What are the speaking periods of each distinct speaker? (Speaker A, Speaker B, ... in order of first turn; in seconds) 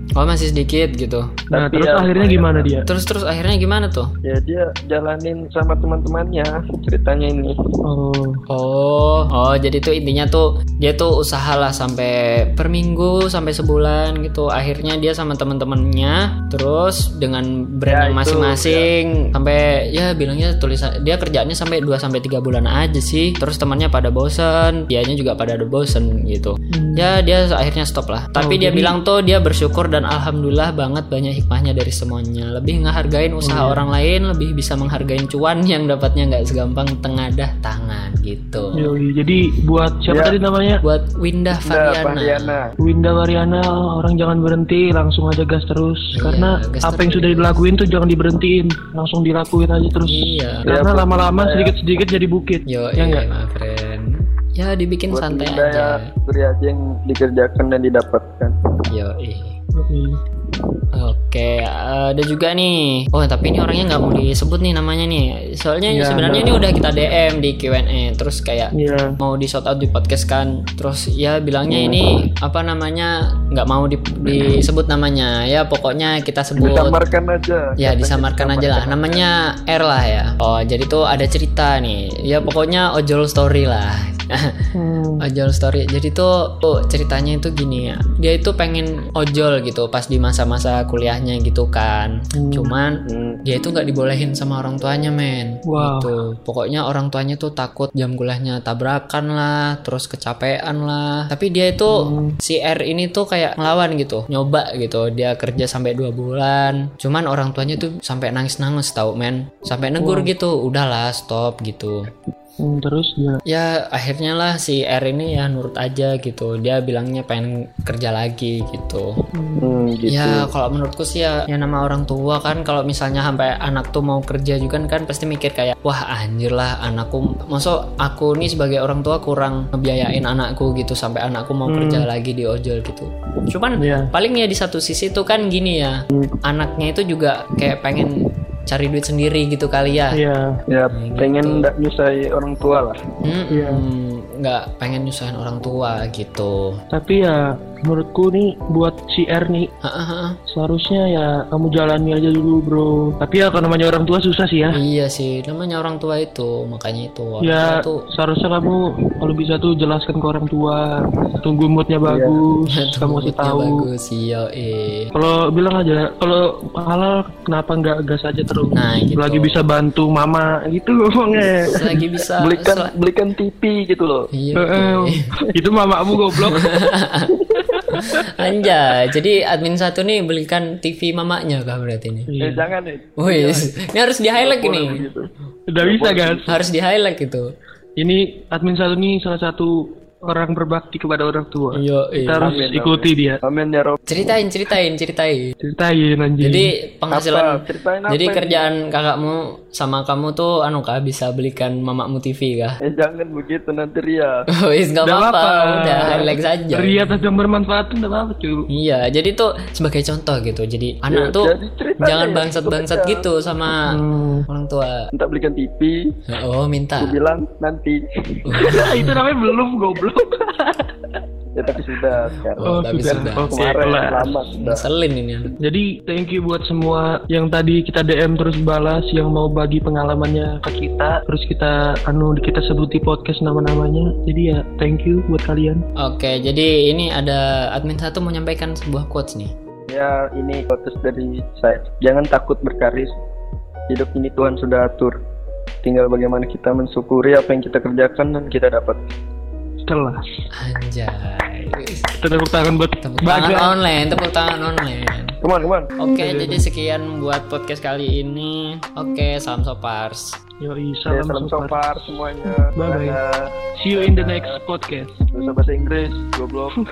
Speaker A: 0.2-1.3, 2.9-4.1, 8.5-38.9, 40.8-42.6, 46.1-47.6, 50.0-50.7, 52.7-56.1, 58.9-59.6, 60.9-77.0, 77.8-84.6, 85.2-112.1, 113.5-119.1, 120.1-138.1, 138.7-140.2, 140.9-141.7, 143.2-146.7, 149.8-150.4, 154.7-158.1, 162.7-165.1, 168.7-169.7, 171.7-172.9, 174.3-175.3, 176.4-177.4, 177.9-182.3, 183.2-185.1, 186.5-187.5, 191.7-192.6, 194.1-195.5, 196.4-202.8, 204.6-207.1, 208.7-215.1, 216.3-217.2, 218.5-219.2, 222.5-223.6, 224.6-225.5, 236.0-239.5, 250.6-252.1, 253.0-255.4, 256.0-260.4
Speaker B: 1.5-2.9, 7.8-8.4, 26.7-27.1, 28.4-29.0, 33.4-33.9, 38.7-40.8, 42.8-53.3, 59.8-60.2, 65.9-66.6, 68.7-69.2, 84.8-85.2, 92.4-92.7, 95.7-96.1, 101.9-102.4, 110.0-110.3, 112.6-113.4, 119.4-119.8, 131.7-132.1, 133.8-134.1, 140.1-140.6, 143.5-143.8, 146.9-149.7, 150.5-154.8, 157.4-163.9, 165.1-172.0, 174.6-176.8, 177.6-178.2, 182.3-182.7, 185.7-186.6, 188.0-193.4, 195.6-196.7, 205.0-208.7, 213.9-214.5, 218.7-221.0, 222.6-224.4, 225.6-235.8, 249.8-250.2, 252.2-253.8, 256.2-256.6, 260.6-261.8, 262.5-263.2, 263.8-265.2
Speaker C: 1.5-2.8, 4.2-7.5, 17.9-18.9, 40.1-40.4, 41.6-42.7, 50.7-51.8, 55.1-58.5, 71.7-72.0, 76.6-79.2, 93.1-93.4, 119.6-120.5, 140.7-143.0, 162.1-162.4, 171.7-174.3, 177.3-177.7, 182.4-183.8, 184.4-185.3, 185.8-186.6, 192.4-194.0, 197.1-198.7, 202.9-204.3, 206.0-206.3, 211.1-213.2, 215.1-215.9, 217.0-219.0, 221.6-222.8, 223.5-224.9, 239.9-243.2, 243.9-245.2, 245.8-249.0, 255.4-255.9, 261.1-264.6, 265.3-266.8